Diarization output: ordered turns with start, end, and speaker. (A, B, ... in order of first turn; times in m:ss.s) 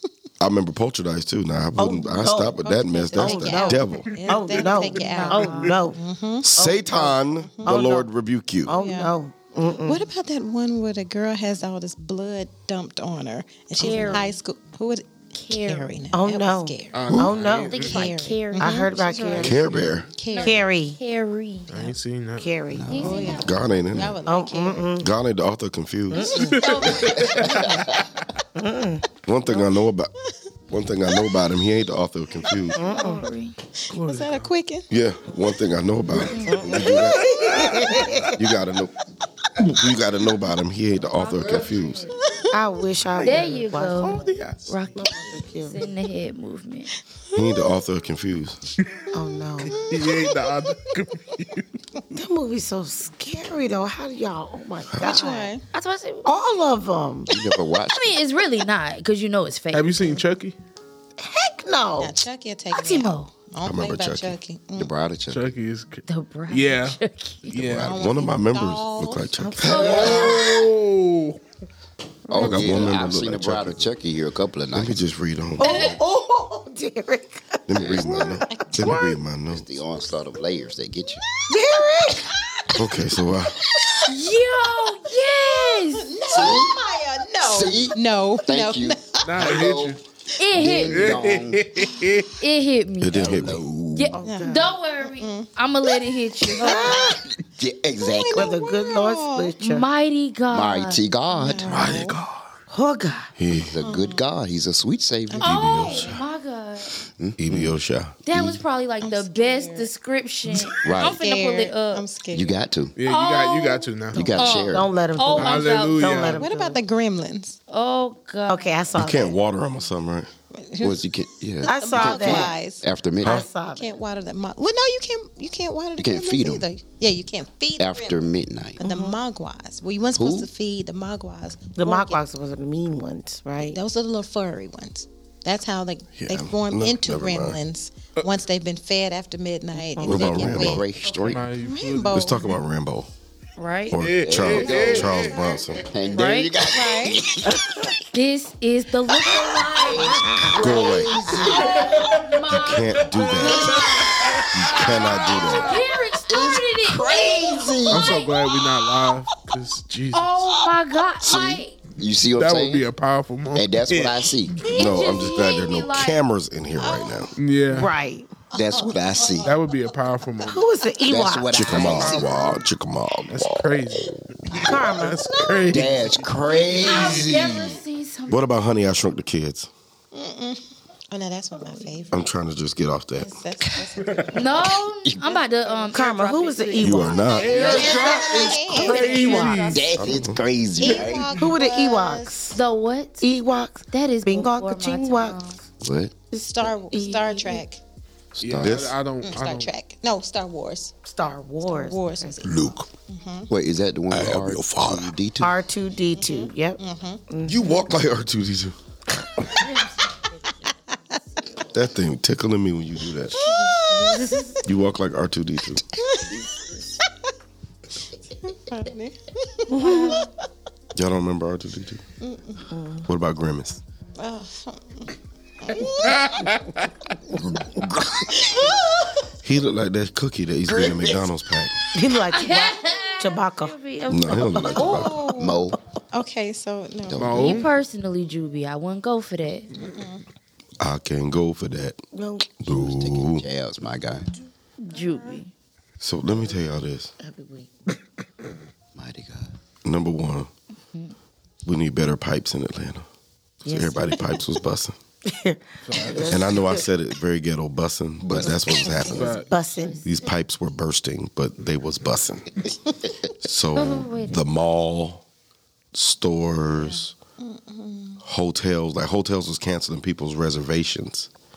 0:00.4-0:04.1 A
0:01.8-0:02.6 B
0:02.6-0:06.5 C
0:03.1-0:06.0 B
0:04.9-0:05.8 D
0:06.4-0:08.7 A
0:06.5-0:08.1 B
0:08.6-0:10.1 B
0:08.7-0:09.1 C
0:09.8-0:17.2 C
0:13.8-0:14.4 D
0:15.3-0:15.9 D
0:16.1-0:18.0 B
0:16.9-0:18.0 E
0:17.7-0:19.5 D
0:17.7-0:20.6 C
0:18.6-0:19.6 B
0:19.2-0:20.1 E
0:19.4-0:20.1 A
0:20.2-0:21.9 D
0:20.4-0:21.0 B
0:21.7-0:22.6 E
0:22.4-0:23.2 B
0:22.7-0:23.5 F
0:22.9-0:23.5 D
0:22.9-0:25.0 C
0:23.4-0:24.2 A
0:24.2-0:25.1 B
0:25.0-0:26.4 A
0:26.1-0:26.6 B
0:26.3-0:28.2 E
0:26.5-0:27.2 D
0:27.2-0:27.6 F
0:28.6-0:29.0 B
0:29.2-0:30.1 A
0:30.7-0:32.8 A
0:32.8-0:33.2 B
0:32.8-0:33.5 D
0:33.8-0:34.9 C
0:33.9-0:34.5 E
0:34.9-0:37.2 A
0:36.2-0:36.7 D
0:36.4-0:38.3 B
0:37.3-0:38.1 E
0:38.3-0:38.9 A
0:39.6-0:42.1 A
0:41.1-0:42.2 D
0:42.5-0:44.3 B
0:43.2-0:44.7 E
0:43.2-0:46.9 D
0:45.0-0:45.8 B
0:47.3-0:47.6 C
0:47.3-0:48.6 A
0:49.1-0:49.8 B
0:49.6-0:51.6 E
0:49.7-0:50.7 C
0:52.1-0:55.5 B
0:55.0-0:55.6 C
0:55.7-0:56.3 D
0:56.2-0:57.3 B
0:57.2-0:58.2 F
0:57.9-1:00.2 D
0:59.7-1:00.6 E
1:01.2-1:02.2 B
1:02.0-1:04.9 C
1:02.7-1:03.3 D
1:03.6-1:04.4 A
1:04.8-1:05.5 F
1:05.3-1:07.9 E
1:06.1-1:07.6 D
1:07.6-1:07.8 F
1:07.8-1:10.0 A
1:07.8-1:09.3 C
1:09.4-1:10.4 B
1:09.6-1:10.5 D
1:09.7-1:11.4 E
1:12.3-1:15.0 F
1:12.3-1:13.9 A
1:12.4-1:12.9 E
1:14.7-1:15.8 A
1:15.6-1:17.7 B
1:15.6-1:15.9 D
1:17.7-1:19.7 A
1:17.8-1:21.2 F
1:18.1-1:19.0 C
1:21.5-1:22.4 B
1:22.7-1:23.6 A
1:23.7-1:24.1 C
1:24.0-1:26.1 D
1:25.4-1:29.2 C
1:26.3-1:26.8 F
1:27.4-1:30.0 F
1:29.2-1:30.0 E
1:30.4-1:31.1 D
1:30.5-1:31.8 F
1:30.9-1:32.3 E
1:32.4-1:33.4 D
1:33.0-1:33.6 A
1:33.1-1:34.2 F
1:33.9-1:37.1 D
1:34.1-1:34.7 B
1:34.2-1:35.5 C
1:36.5-1:37.2 C
1:36.6-1:37.2 B
1:37.6-1:38.6 F
1:38.0-1:39.5 C
1:38.3-1:39.8 B
1:39.6-1:41.0 D
1:40.5-1:41.9 F
1:41.3-1:42.2 C
1:41.8-1:42.2 A
1:41.8-1:42.2 E
1:42.7-1:43.3 B
1:43.4-1:43.8 A
1:43.5-1:46.0 F
1:43.8-1:44.3 C
1:45.3-1:46.1 C
1:45.4-1:46.9 D
1:45.4-1:46.2 A
1:47.2-1:47.8 F
1:47.4-1:48.2 A
1:48.2-1:52.0 D
1:48.3-1:48.6 F
1:49.0-1:49.9 C
1:50.6-1:52.6 C
1:50.8-1:51.2 F
1:52.3-1:52.9 F
1:53.0-1:54.4 E
1:53.0-1:56.4 D
1:54.1-1:54.9 F
1:54.1-1:56.8 B
1:55.3-1:56.4 E
1:56.3-1:57.6 C
1:57.7-1:58.8 D
1:58.5-1:59.4 B
1:58.9-2:00.3 A
2:00.5-2:02.9 C
2:00.8-2:03.4 F
2:01.6-2:02.6 B
2:03.2-2:03.9 B
2:03.7-2:12.2 C
2:06.0-2:06.7 F
2:07.8-2:08.8 F
2:08.8-2:09.2 B
2:10.1-2:10.5 F
2:11.8-2:13.8 B
2:13.7-2:20.8 C
2:16.2-2:17.6 A
2:20.0-2:20.8 A
2:20.0-2:21.6 F
2:21.1-2:22.3 E
2:21.6-2:22.6 C
2:22.1-2:23.1 A
2:23.6-2:24.0 D
2:23.9-2:25.9 A
2:24.0-2:25.8 E
2:24.2-2:27.6 F
2:26.1-2:26.5 D
2:26.7-2:27.2 C
2:28.1-2:30.3 D
2:29.7-2:31.8 F
2:30.0-2:30.8 B
2:30.6-2:31.2 A
2:31.3-2:38.3 D
2:31.9-2:32.4 E
2:32.5-2:33.8 A
2:33.2-2:35.6 E
2:34.5-2:35.8 A
2:36.3-2:38.3 F
2:37.9-2:40.4 E
2:40.1-2:41.8 D
2:41.2-2:42.9 F
2:42.3-2:44.3 E
2:43.5-2:44.7 F
2:44.6-2:46.2 D
2:44.7-2:47.3 A
2:47.4-2:47.9 E
2:47.7-2:48.4 B
2:48.5-2:49.6 F
2:48.6-2:49.5 C
2:49.4-2:50.7 E
2:50.4-2:52.0 B
2:51.0-2:52.3 F
2:51.5-2:53.7 A
2:51.7-2:52.4 E
2:53.3-2:56.2 E
2:54.5-2:55.4 B
2:55.7-2:57.8 F
2:56.8-2:58.4 D
2:56.9-2:57.2 E
2:58.3-2:59.7 A
3:00.1-3:02.2 C
3:02.1-3:03.3 A
3:03.2-3:06.0 C
3:04.3-3:10.0 D
3:05.9-3:09.8 B
3:06.8-3:07.7 A
3:07.4-3:07.9 E
3:07.5-3:11.5 F
3:07.6-3:09.5 C
3:10.0-3:10.4 A
3:10.8-3:12.4 C
3:11.3-3:12.6 B
3:12.5-3:13.2 D
3:13.2-3:15.4 B
3:13.9-3:15.6 D
3:15.8-3:16.1 F
3:16.3-3:17.6 B
3:16.4-3:17.8 C
3:16.9-3:17.6 D
3:18.4-3:19.7 E
3:18.4-3:19.0 F
3:18.5-3:19.0 A
3:19.2-3:20.9 C
3:21.0-3:22.4 B
3:21.6-3:23.5 C
3:22.4-3:22.8 A
3:23.5-3:25.6 F
3:24.1-3:25.1 A
3:25.4-3:27.8 B
3:26.2-3:27.2 C
3:27.4-3:28.7 A
3:29.4-3:30.7 D
3:31.4-3:31.6 D
3:31.7-3:33.4 A
3:33.3-3:34.6 D
3:34.6-3:35.8 A
3:36.0-3:36.5 C
3:38.4-3:40.2 C
3:39.7-3:40.3 D
3:40.9-3:42.0 A
3:42.2-3:42.6 C
3:42.7-3:43.0 B
3:43.0-3:43.8 A
3:44.2-3:46.3 C
3:46.1-3:46.8 E
3:48.5-3:48.8 C
3:49.4-3:51.8 A
3:50.7-3:51.3 F
3:51.9-3:53.8 B
3:52.3-3:55.1 D
3:54.1-3:55.2 A
3:54.4-3:55.5 B
3:54.8-3:57.4 C
3:55.3-3:55.8 F
3:57.0-3:57.7 F
3:57.2-3:57.7 E
3:57.3-3:59.7 D
3:59.7-4:00.2 C
4:00.8-4:02.0 A
4:02.1-4:02.5 B
4:02.6-4:03.4 A
4:02.6-4:04.3 F
4:04.8-4:05.5 D
4:06.0-4:07.1 A
4:07.2-4:07.7 B
4:08.9-4:09.6 F
4:09.8-4:10.5 A
4:11.6-4:13.0 A
4:13.6-4:14.4 B
4:13.7-4:15.0 A
4:15.2-4:16.8 B
4:15.8-4:16.5 E
4:16.3-4:19.4 A
4:18.2-4:18.6 F
4:19.0-4:19.5 E
4:19.5-4:20.0 B
4:19.6-4:20.1 D
4:20.0-4:22.6 A
4:23.4-4:25.2 A
4:23.7-4:24.4 D
4:25.9-4:27.1 A
4:27.4-4:28.2 C
4:28.2-4:31.3 A